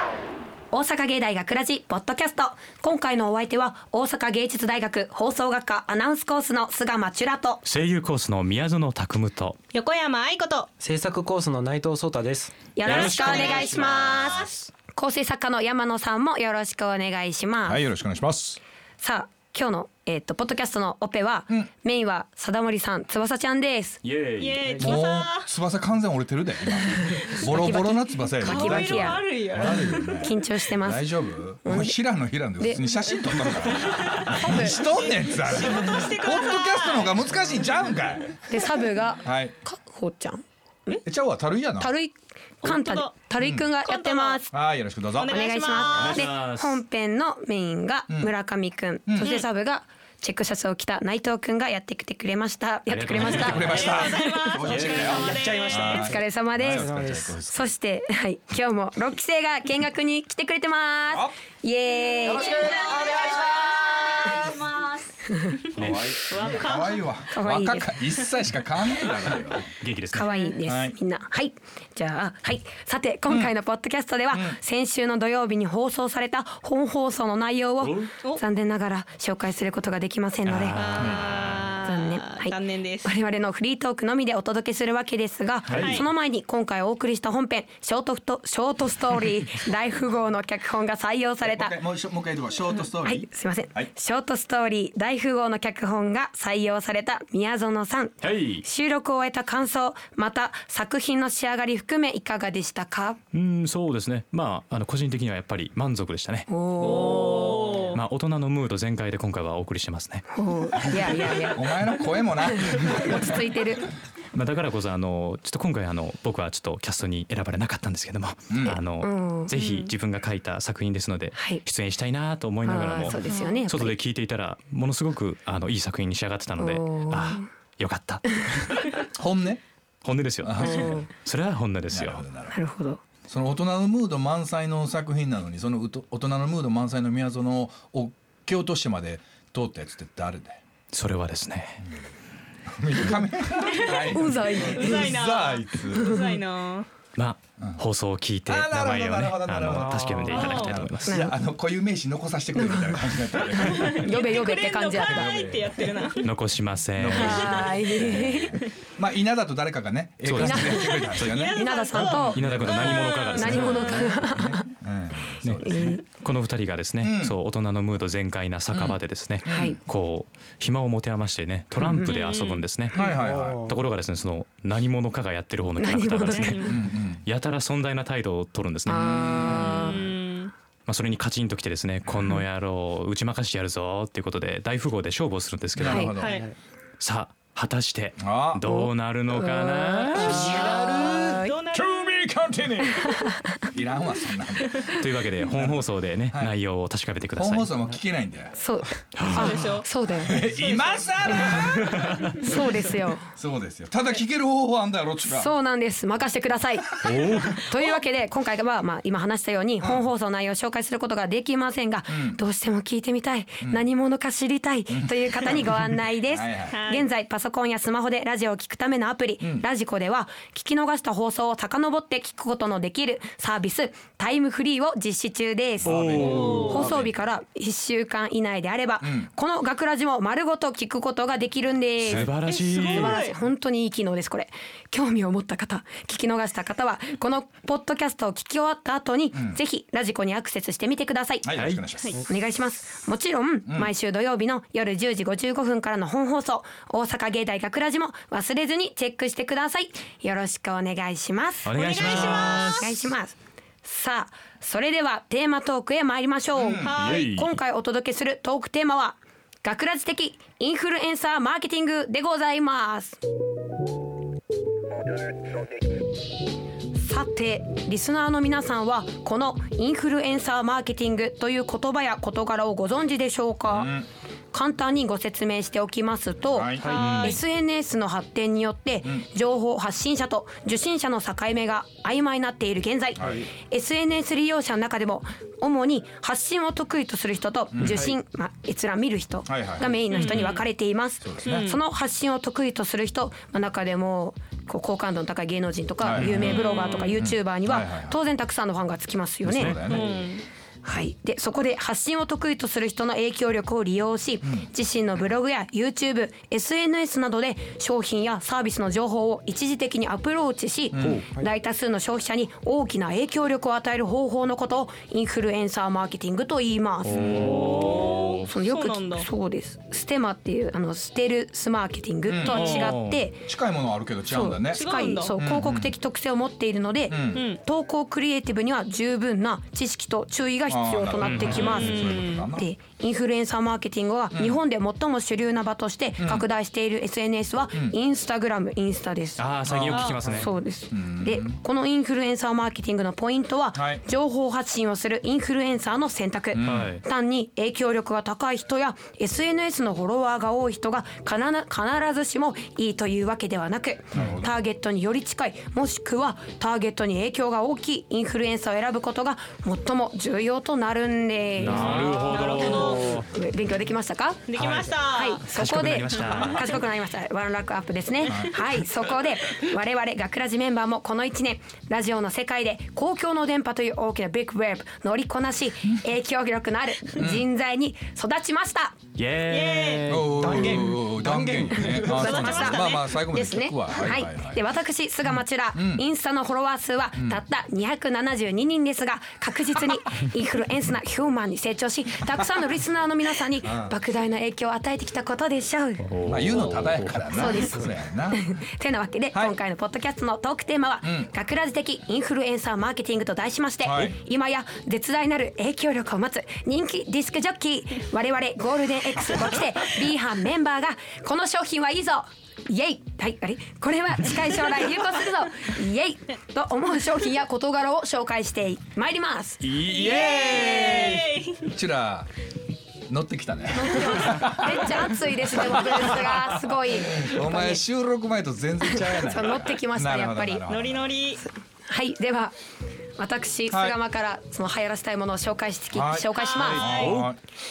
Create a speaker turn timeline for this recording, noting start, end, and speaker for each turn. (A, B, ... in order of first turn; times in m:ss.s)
0:00.7-0:07.6 A
0:07.6-0:09.6 B
0:09.7-0:10.7 C
0:10.8-0:12.7 D
0:12.8-0:17.8 A
0:12.8-0:14.5 B
0:12.8-0:14.6 C
0:17.7-0:18.6 E
0:19.0-0:24.0 A
0:24.0-0:24.8 B
0:24.4-0:25.5 C
0:24.6-0:25.0 D
0:24.8-0:38.7 E
0:27.1-0:31.1 A
0:28.4-0:30.3 C
0:31.6-0:32.0 A
0:33.7-0:37.2 C
0:34.3-0:34.8 A
0:38.5-0:41.0 A
0:39.2-0:39.5 E
0:41.0-0:41.9 E
0:41.8-0:44.5 A
0:42.6-0:43.1 C
0:43.4-0:43.7 E
0:43.8-0:44.4 C
0:44.5-0:45.4 E
0:45.2-0:46.2 C
0:45.3-0:54.6 A
0:45.9-0:46.8 B
0:49.1-0:49.4 E
0:52.9-0:54.0 B
0:53.2-0:57.7 E
0:53.2-0:56.1 C
0:54.6-0:55.3 B
0:55.1-0:57.4 D
0:55.9-1:03.0 A
1:02.4-1:03.8 E
1:05.3-1:05.6 A
1:05.8-1:09.7 E
1:05.8-1:06.2 B
1:06.0-1:07.1 C
1:07.3-1:08.0 A
1:09.8-1:10.3 B
1:10.1-1:21.2 A
1:10.2-1:10.5 C
1:10.6-1:11.0 E
1:13.3-1:13.5 E
1:14.3-1:14.6 E
1:17.8-1:18.1 B
1:20.4-1:21.6 B
1:20.8-1:23.1 C
1:21.8-1:31.8 A
1:25.7-1:26.0 B
1:25.8-1:26.1 C
1:31.4-1:33.9 E
1:33.0-1:43.2 A
1:38.2-1:38.6 B
1:43.3-1:50.2 B
1:46.5-1:47.9 A
1:46.8-1:48.0 C
1:50.3-1:53.9 A
1:50.8-1:53.4 E
1:54.3-2:08.9 B
1:58.5-1:58.8 E
1:58.6-1:59.5 A
1:59.5-1:59.9 C
2:01.3-2:01.6 A
2:02.6-2:04.0 A
2:03.2-2:03.6 C
2:06.6-2:07.5 A
2:08.3-2:08.7 A
2:09.1-2:09.6 E
2:10.0-2:12.2 B
2:10.4-2:11.1 E
2:10.6-2:11.1 A
2:11.9-2:12.5 E
2:12.5-2:13.0 A
2:13.3-2:20.6 E
2:20.9-2:21.8 B
2:22.7-2:26.3 E
2:23.6-2:26.9 C
2:24.1-2:25.1 A
2:26.0-2:26.2 A
2:27.2-2:31.2 B
2:27.6-2:27.8 E
2:28.5-2:34.2 E
2:29.6-2:30.6 D
2:30.3-2:30.8 C
2:31.0-2:31.3 A
2:32.5-2:35.3 A
2:33.5-2:36.3 C
2:35.1-2:35.8 E
2:36.2-2:37.7 B
2:36.9-2:43.0 E
2:37.1-2:38.6 A
2:40.2-2:44.6 B
2:40.3-2:42.4 A
2:41.2-2:44.1 C
2:43.3-2:44.7 A
2:44.7-2:46.0 E
2:45.4-2:53.0 B
2:45.6-2:46.0 A
2:47.0-2:47.4 E
2:48.7-2:49.7 E
2:49.5-2:49.8 A
2:51.8-2:52.1 A
2:52.0-2:52.6 C
2:52.9-2:53.7 E
2:52.9-2:53.8 D
2:53.6-3:00.0 B
2:55.8-2:56.7 A
2:56.2-2:56.7 C
2:56.7-2:57.2 E
2:58.9-3:00.0 A
2:59.0-2:59.8 E
2:59.7-3:00.5 C
3:00.8-3:06.2 B
3:05.7-3:06.4 E
3:05.8-3:06.1 A
3:06.2-3:06.5 C
3:06.2-3:06.5 D
3:07.0-3:10.6 B
3:08.2-3:08.6 E
3:08.6-3:11.6 A
3:10.2-3:11.4 D
3:10.2-3:12.0 C
3:10.8-3:16.5 E
3:13.0-3:13.4 A
3:14.9-3:17.7 B
3:17.3-3:18.5 E
3:18.5-3:20.4 A
3:19.1-3:19.7 B
3:19.3-3:19.8 C
3:20.1-3:22.6 E
3:20.4-3:21.6 C
3:21.6-3:22.4 B
3:22.3-3:23.3 A
3:23.3-3:25.5 E
3:25.2-4:23.2 A
3:27.0-3:27.6 B
3:29.8-3:30.0 E
3:32.1-3:32.4 E
3:34.9-3:36.8 E
3:36.7-3:37.1 C
3:39.4-3:39.6 E
3:45.8-3:47.2 E
3:45.8-3:46.9 B
3:46.2-3:46.9 C
3:49.0-3:49.3 E
3:52.0-3:53.2 B
3:52.4-3:53.3 C
3:59.3-3:59.6 E
4:01.4-4:02.1 E
4:01.5-4:01.9 B
4:11.6-4:13.0 B
4:11.7-4:12.9 C
4:16.6-4:17.0 E
4:16.8-4:17.3 C
4:17.0-4:17.6 B
4:27.0-4:33.9 A
4:33.7-4:34.1 E
4:34.5-4:59.9 A
4:36.5-4:37.0 E
4:36.8-4:37.2 D
4:36.9-4:37.2 C
4:36.9-4:37.4 B
4:43.2-4:43.5 E
4:47.7-4:48.1 E
4:49.4-4:50.0 E
4:50.1-4:50.6 C
4:51.2-4:51.8 E
4:51.4-4:51.8 C
4:56.0-4:58.2 E
4:56.2-4:56.5 B
4:56.4-4:57.2 C
4:59.4-5:00.1 E
4:59.6-5:00.0 B
4:59.8-5:00.4 C
5:00.8-5:23.4 A
5:10.9-5:11.3 E
5:11.0-5:11.3 B
5:17.0-5:18.5 B
5:17.1-5:17.6 E
5:17.5-5:19.3 C
5:22.3-5:22.9 E
5:22.5-5:23.2 B
5:23.4-5:25.9 E
5:24.3-5:39.5 A
5:24.7-5:25.3 C
5:27.1-5:27.4 E
5:27.3-5:27.6 C
5:30.7-5:32.7 E
5:31.2-5:32.1 B
5:31.6-5:32.5 C
5:34.3-5:34.6 E
5:36.2-5:36.4 E
5:39.4-5:40.5 B
5:39.6-5:41.6 E
5:39.9-5:40.2 C
5:40.0-6:04.4 A
5:43.7-5:44.0 E
5:46.5-5:46.9 E
5:46.6-5:47.0 B
5:54.1-5:54.5 E
6:01.6-6:03.3 B
6:01.7-6:03.2 C
6:04.5-6:05.4 C
6:04.6-6:06.7 B
6:05.0-6:19.0 A
6:06.2-6:06.4 C
6:08.3-6:08.5 E
6:17.2-6:17.5 E
6:19.2-6:20.8 B
6:19.5-6:20.2 C
6:20.1-6:24.6 E
6:20.3-6:22.4 D
6:21.7-6:36.1 A
6:22.1-6:23.1 C
6:25.7-6:26.0 E
6:33.6-6:33.9 E
6:36.0-6:37.6 B
6:36.2-6:38.4 E
6:37.3-6:59.6 A
6:43.8-6:44.2 E
6:59.6-7:01.3 B
6:59.8-7:01.7 C
7:00.2-7:00.9 E
7:01.6-7:02.3 E
7:03.1-7:11.2 E
7:03.7-7:07.8 A
7:08.9-7:10.6 A
7:10.7-7:11.4 C
7:11.9-7:12.5 A
7:13.2-7:17.0 A
7:13.7-7:14.0 E
7:15.9-7:17.4 E
7:16.4-7:17.2 C
7:16.6-7:17.3 B